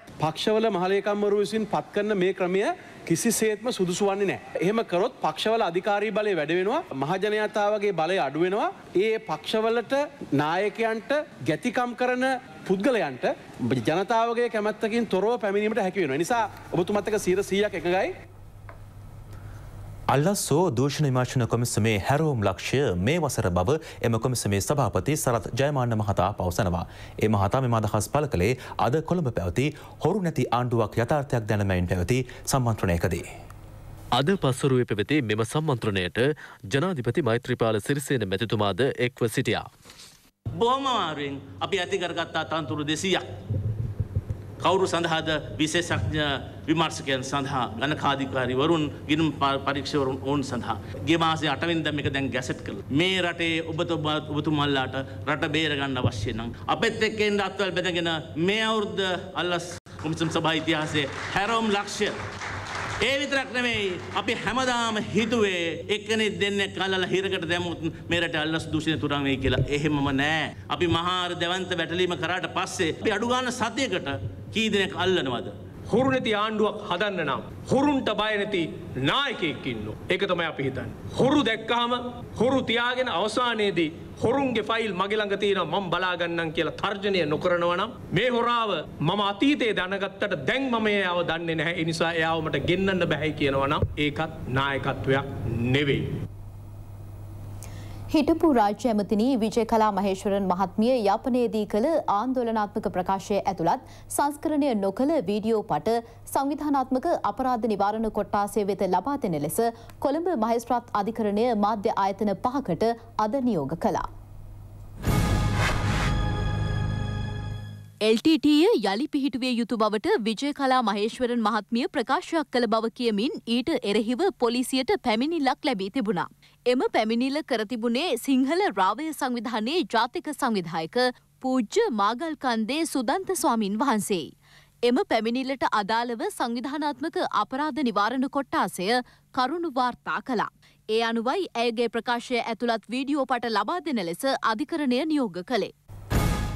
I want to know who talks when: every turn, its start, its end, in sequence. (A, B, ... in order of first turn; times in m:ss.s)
0:00.2-0:18.1 A
0:20.1-0:33.2 B
0:34.1-0:39.7 C
0:40.6-0:43.2 D
0:44.6-1:02.2 D
1:03.0-1:15.6 D
1:15.9-1:36.2 E
1:38.1-1:54.0 F
1:58.0-2:14.3 G
2:14.9-2:25.7 G